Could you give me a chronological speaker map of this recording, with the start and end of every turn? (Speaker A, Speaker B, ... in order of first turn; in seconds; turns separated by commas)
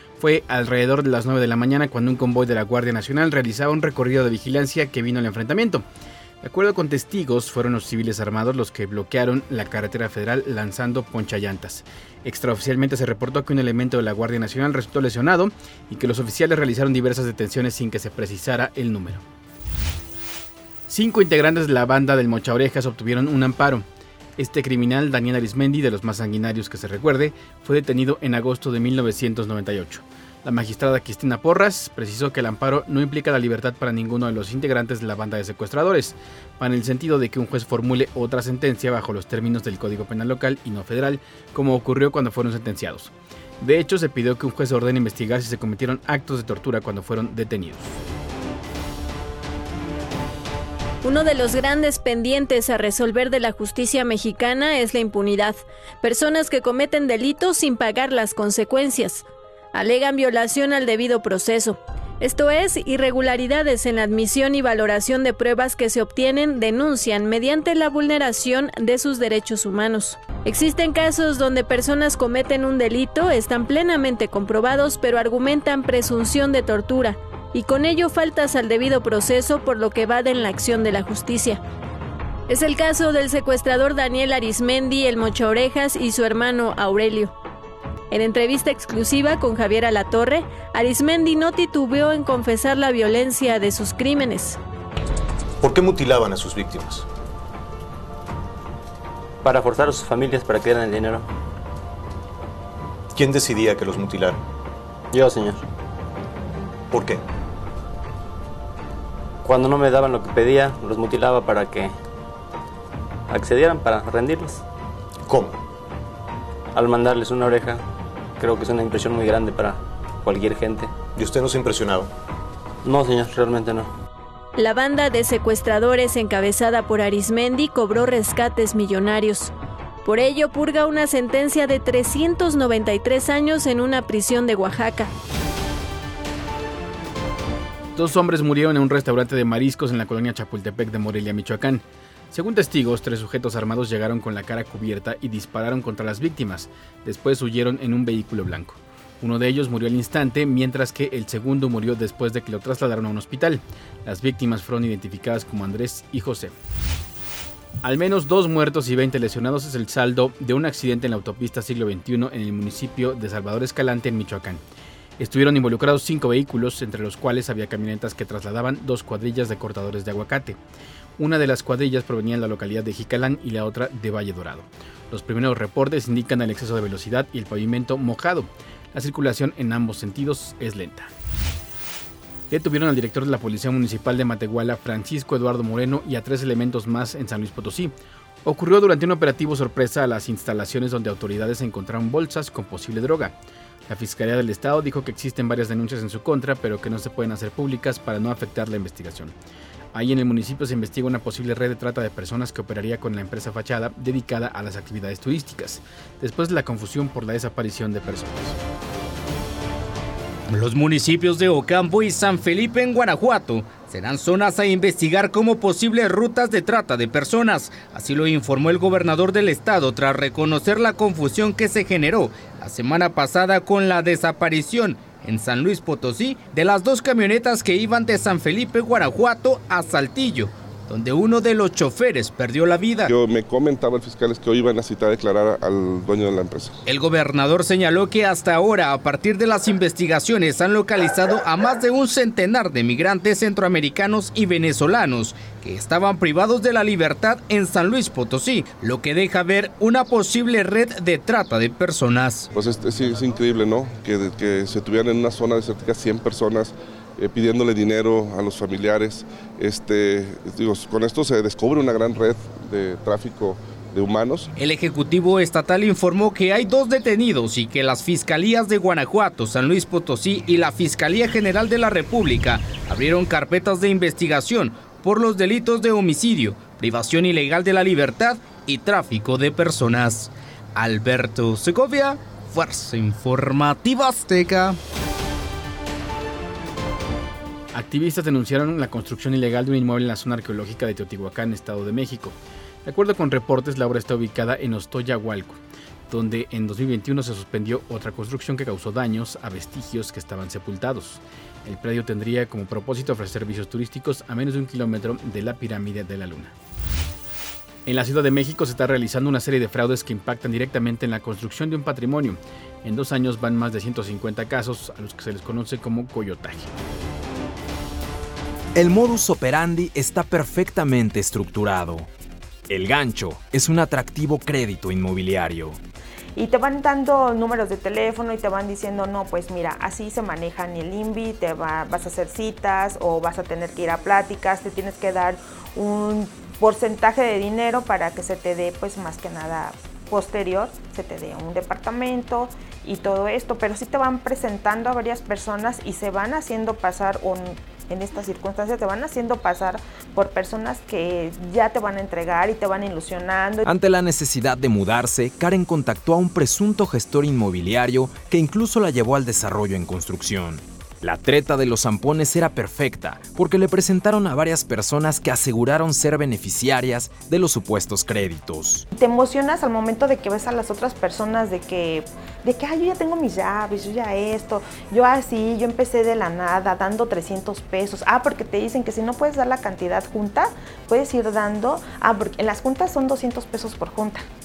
Speaker A: 0.2-5.8, Speaker A: 6.4-19.2, Speaker A: 20.9-23.8, Speaker A: 24.4-48.0, Speaker B: 51.0-81.6, Speaker B: 82.5-87.3, Speaker B: 88.1-94.6, Speaker C: 95.6-97.0, Speaker D: 99.4-101.2, Speaker C: 103.1-104.4, Speaker D: 105.1-105.6, Speaker C: 106.9-107.2, Speaker D: 109.4-112.0, Speaker D: 113.3-114.6, Speaker C: 115.3-115.6, Speaker D: 116.7-117.8, Speaker D: 118.4-120.9, Speaker C: 121.2-122.1, Speaker D: 122.8-123.9, Speaker B: 124.6-129.5, Speaker B: 130.0-135.1, Speaker A: 137.9-156.5, Speaker A: 157.8-164.6, Speaker A: 165.2-170.6, Speaker A: 171.2-181.1, Speaker A: 182.5-193.3, Speaker A: 193.9-199.3, Speaker A: 199.9-208.6, Speaker E: 210.5-233.1, Speaker F: 233.1-236.8, Speaker E: 236.8-252.5, Speaker F: 252.5-264.5, Speaker E: 264.6-284.8, Speaker A: 287.7-306.5, Speaker A: 307.9-316.7, Speaker G: 318.8-322.1, Speaker G: 322.7-325.8, Speaker H: 326.4-353.7, Speaker G: 353.6-368.8, Speaker H: 368.9-384.2